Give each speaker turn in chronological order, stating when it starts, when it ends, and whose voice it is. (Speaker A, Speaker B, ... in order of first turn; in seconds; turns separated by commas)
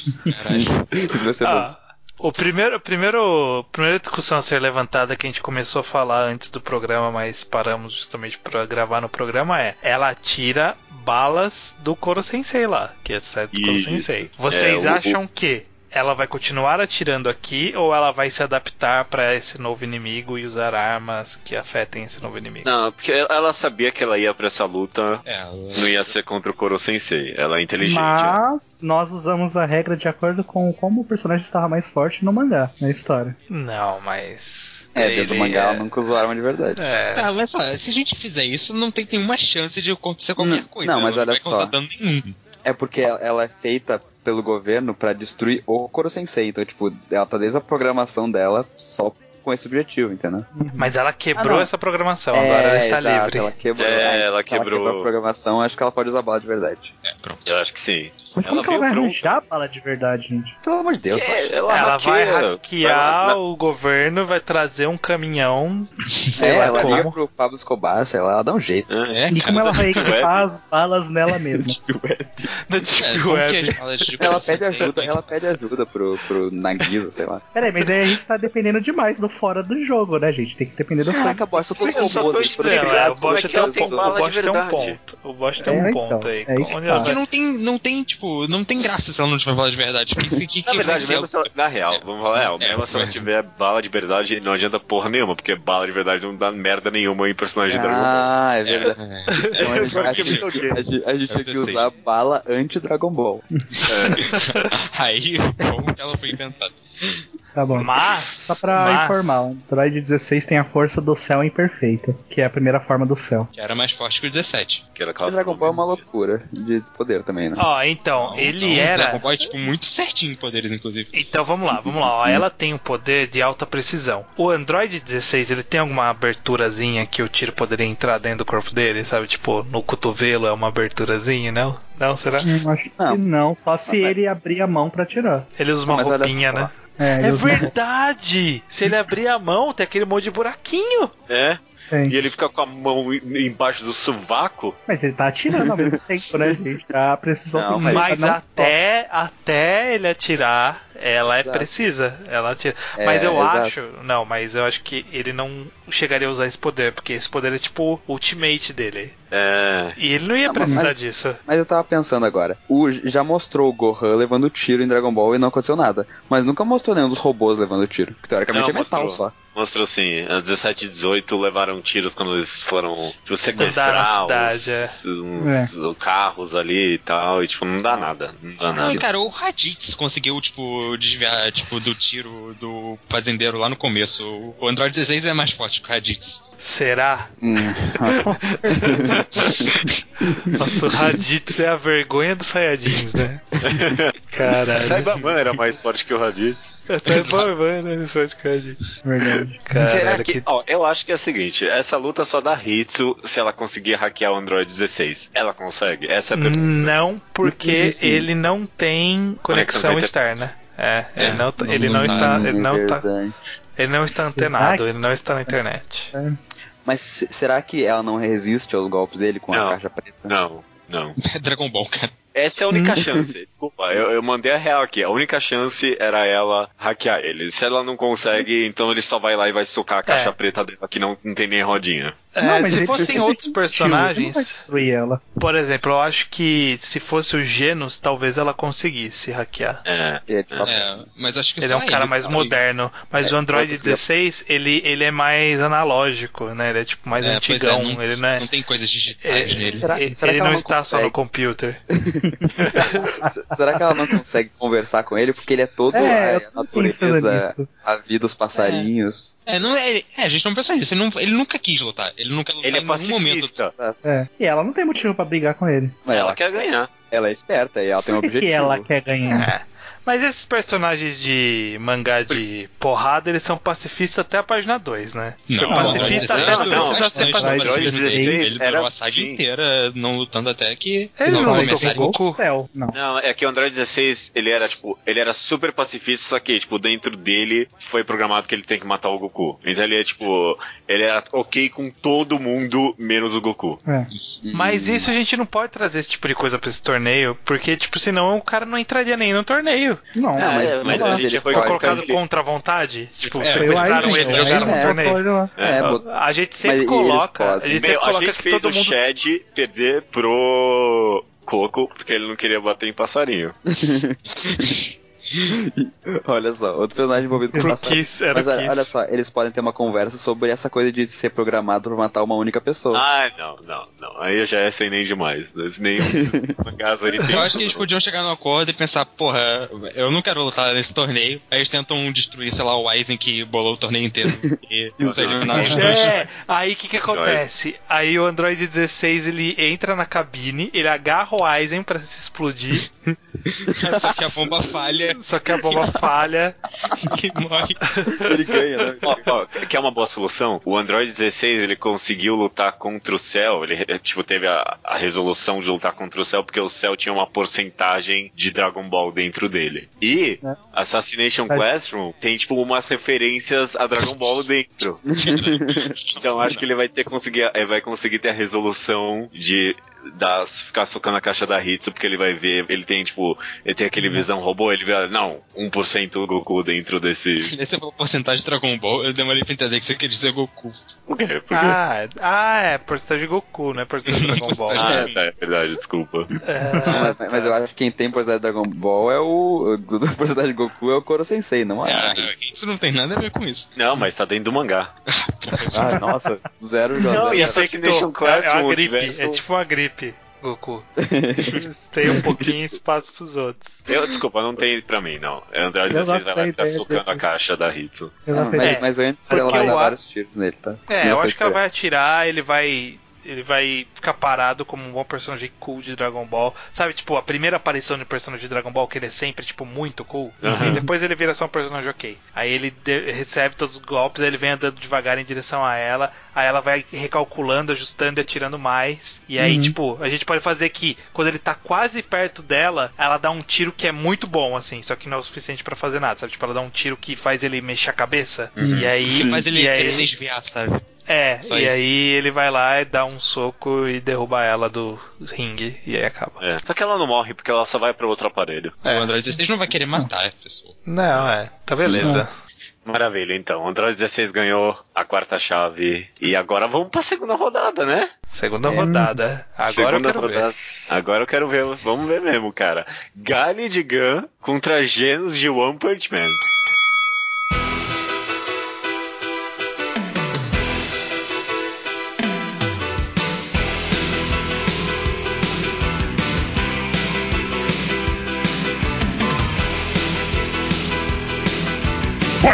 Speaker A: 0.3-0.9, Speaker B: 0.4-1.7, Speaker C: 1.4-22.7, Speaker D: 13.5-15.2, Speaker D: 22.6-25.2, Speaker A: 25.2-26.1, Speaker D: 25.7-28.4, Speaker E: 27.8-33.4, Speaker C: 33.5-35.8, Speaker B: 34.9-36.9, Speaker C: 36.8-37.3, Speaker A: 37.1-42.4, Speaker B: 40.4-41.7, Speaker B: 42.6-50.5, Speaker E: 50.5-50.9, Speaker C: 50.8-53.5, Speaker B: 51.4-51.7, Speaker B: 52.3-56.9, Speaker D: 53.8-55.1, Speaker A: 57.0-57.5, Speaker D: 57.5-59.4, Speaker E: 58.4-60.5, Speaker B: 60.6-61.6, Speaker D: 61.1-63.4, Speaker C: 61.7-67.1, Speaker A: 66.2-67.0, Speaker B: 66.4-69.0, Speaker D: 68.9-70.5, Speaker A: 69.1-69.8, Speaker E: 69.3-71.8, Speaker B: 71.5-72.5, Speaker C: 72.7-74.0, Speaker A: 72.9-75.3, Speaker B: 74.2-77.4, Speaker E: 77.5-81.4, Speaker B: 81.1-84.1, Speaker D: 81.8-85.0, Speaker C: 82.5-87.2, Speaker E: 85.6-87.1, Speaker A: 87.0-93.3, Speaker D: 90.6-98.3, Speaker B: 97.7-99.0, Speaker A: 98.7-100.5, Speaker C: 99.3-99.6, Speaker B: 99.5-103.4, Speaker D: 99.5-100.8, Speaker A: 101.3-101.9, Speaker D: 103.9-104.2, Speaker A: 104.2-107.2, Speaker C: 104.4-104.7, Speaker E: 107.5-107.9, Speaker C: 107.8-109.4, Speaker E: 108.5-113.5, Speaker A: 113.5-114.8, Speaker D: 114.9-116.0, Speaker B: 115.2-117.7, Speaker C: 117.5-119.4, Speaker A: 118.2-121.2, Speaker C: 121.1-132.5, Speaker E: 132.4-135.5, Speaker B: 133.8-134.2, Speaker C: 135.6-141.1, Speaker B: 135.8-136.7, Speaker E: 137.0-137.7, Speaker D: 141.3-144.8, Speaker E: 141.9-142.2, Speaker E: 144.9-148.8, Speaker B: 145.6-146.6, Speaker B: 147.5-148.1, Speaker C: 147.8-159.1, Speaker B: 151.4-151.7, Speaker B: 152.9-153.8, Speaker D: 159.3-160.0, Speaker C: 160.0-161.4, Speaker B: 160.4-169.3, Speaker D: 168.5-179.0, Speaker C: 173.6-175.0, Speaker E: 175.4-175.7, Speaker A: 178.7-186.4, Speaker C: 186.6-187.3, Speaker B: 187.4-189.7, Speaker E: 188.2-189.2, Speaker C: 190.6-193.5, Speaker D: 193.6-194.1, Speaker C: 194.3-195.1, Speaker D: 194.7-196.8, Speaker C: 196.9-198.8, Speaker A: 197.1-197.5, Speaker E: 199.0-199.6, Speaker C: 199.6-200.5, Speaker D: 199.7-206.9, Speaker C: 206.3-213.0, Speaker B: 207.8-208.3, Speaker D: 209.5-210.1, Speaker A: 211.2-212.5, Speaker E: 211.6-212.3, Speaker B: 212.0-213.3, Speaker C: 213.8-216.1, Speaker E: 214.1-214.8, Speaker B: 216.8-220.3, Speaker D: 219.5-221.2, Speaker A: 221.2-222.1, Speaker D: 222.3-232.2, Speaker C: 222.7-223.0, Speaker C: 230.1-230.3, Speaker C: 232.3-234.6, Speaker E: 232.4-235.2, Speaker C: 235.4-239.8, Speaker D: 239.8-240.7, Speaker B: 240.3-241.1, Speaker A: 240.6-242.6, Speaker C: 241.6-248.5, Speaker B: 243.2-244.0, Speaker A: 247.2-249.9, Speaker C: 249.2-251.8, Speaker B: 249.6-251.1, Speaker B: 251.9-259.3, Speaker E: 252.3-254.2, Speaker E: 255.9-257.7, Speaker A: 259.4-263.6, Speaker D: 262.6-263.7, Speaker B: 263.8-264.2, Speaker E: 264.0-266.0, Speaker B: 266.0-266.4, Speaker D: 266.1-266.9, Speaker B: 267.1-268.9, Speaker E: 268.2-269.5, Speaker C: 269.3-277.8, Speaker A: 275.5-282.1, Speaker E: 275.6-278.4, Speaker D: 275.8-279.4, Speaker C: 281.2-282.4, Speaker E: 281.2-282.9, Speaker D: 282.9-293.8, Speaker E: 293.9-294.1, Speaker A: 294.1-294.4, Speaker B: 294.4-295.1, Speaker C: 294.5-300.0, Speaker E: 300.1-301.2, Speaker B: 300.3-302.0, Speaker D: 300.4-302.2, Speaker C: 301.4-305.2, Speaker A: 303.2-304.8, Speaker E: 303.5-305.5, Speaker B: 304.4-305.0, Speaker D: 305.6-305.9, Speaker B: 305.6-306.1, Speaker C: 305.8-309.0, Speaker B: 306.6-307.8, Speaker D: 307.7-313.6, Speaker B: 313.7-314.8, Speaker A: 314.4-314.8, Speaker B: 315.3-323.0, Speaker E: 317.2-317.8, Speaker C: 317.5-318.9, Speaker D: 322.9-327.8, Speaker B: 326.1-326.5, Speaker A: 327.3-336.2, Speaker B: 335.0-336.0, Speaker D: 335.0-336.0, Speaker C: 335.6-342.9, Speaker D: 337.0-337.4, Speaker A: 343.5-346.0, Speaker C: 344.0-344.5, Speaker C: 345.0-346.6, Speaker A: 347.0-347.8, Speaker C: 347.9-348.3, Speaker B: 348.1-349.3, Speaker D: 349.1-365.0, Speaker B: 365.1-365.9, Speaker A: 365.1-366.6, Speaker D: 366.1-377.5, Speaker A: 377.4-380.8, Speaker D: 381.1-381.8, Speaker C: 381.5-385.1, Speaker A: 384.1-385.1, Speaker D: 384.7-386.3, Speaker C: 386.4-387.5, Speaker E: 386.8-387.1, Speaker B: 386.9-392.3, Speaker A: 391.8-393.7, Speaker D: 393.8-394.9, Speaker A: 395.1-395.9, Speaker B: 395.7-397.6, Speaker D: 397.1-399.4, Speaker C: 397.3-403.8, Speaker B: 401.0-402.5, Speaker D: 403.9-408.2, Speaker E: 405.9-407.2, Speaker E: 408.2-409.8, Speaker B: 408.3-411.6, Speaker C: 408.6-409.9, Speaker C: 410.9-440.1, Speaker D: 420.4-420.8, Speaker E: 429.4-429.8, Speaker D: 438.6-438.9, Speaker B: 438.7-439.4, Speaker A: 439.0-440.9, Speaker C: 441.1-446.4, Speaker A: 441.4-441.9, Speaker D: 446.4-448.8, Speaker C: 448.8-449.1, Speaker A: 448.8-450.8, Speaker C: 450.9-452.3, Speaker D: 451.8-452.2, Speaker D: 452.8-458.1, Speaker C: 458.3-460.6, Speaker E: 458.7-459.2, Speaker D: 459.6-466.4